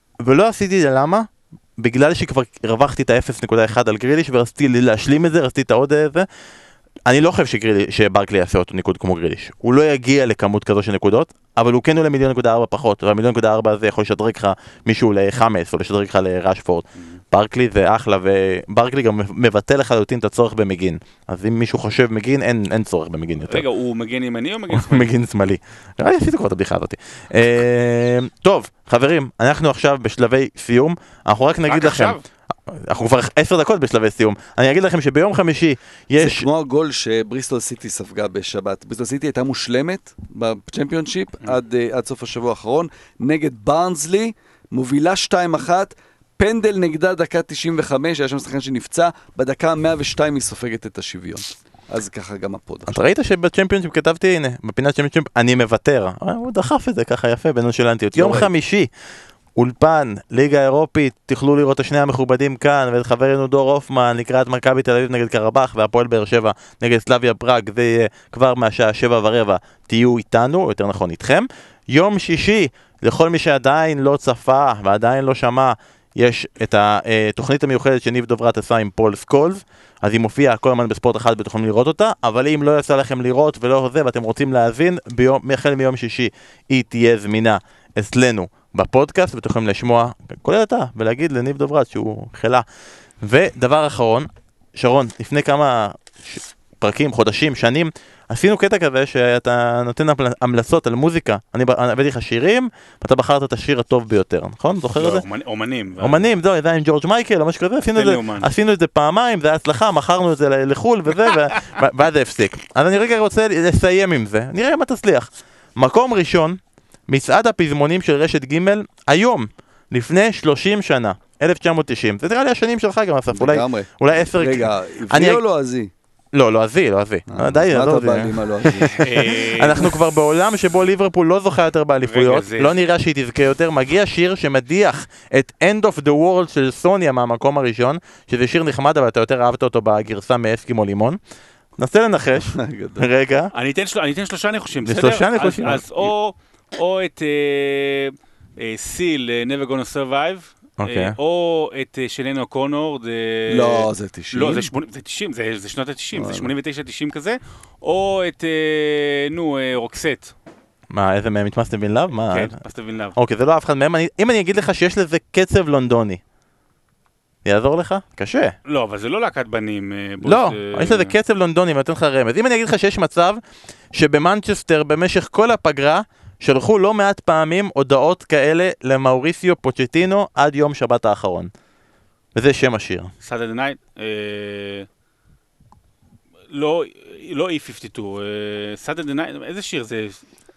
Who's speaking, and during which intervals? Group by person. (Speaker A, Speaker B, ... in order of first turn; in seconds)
Speaker A: 0.2-6.3, 7.1-23.6, 24.7-36.5, 52.9-58.9, 59.5-92.6, 93.2-105.2, 106.0-125.4, 126.3-141.2, 141.8-143.5, 144.9-146.1, 150.8-151.2, 160.9-162.6, 163.2-166.2, 167.4-168.6, 170.2-173.4, 173.9-181.5, 182.3-183.1
Speaker B: 23.5-25.1, 31.7-32.2, 104.9-106.2, 108.0-108.5, 129.0-129.9, 132.1-132.8, 143.5-160.3, 162.3-163.2, 168.7-171.2, 183.2-184.9, 186.5-190.2
Speaker C: 36.2-53.0, 58.2-58.5, 123.3-125.9, 127.3-129.1, 142.5-143.0, 153.5-154.7, 156.2-156.5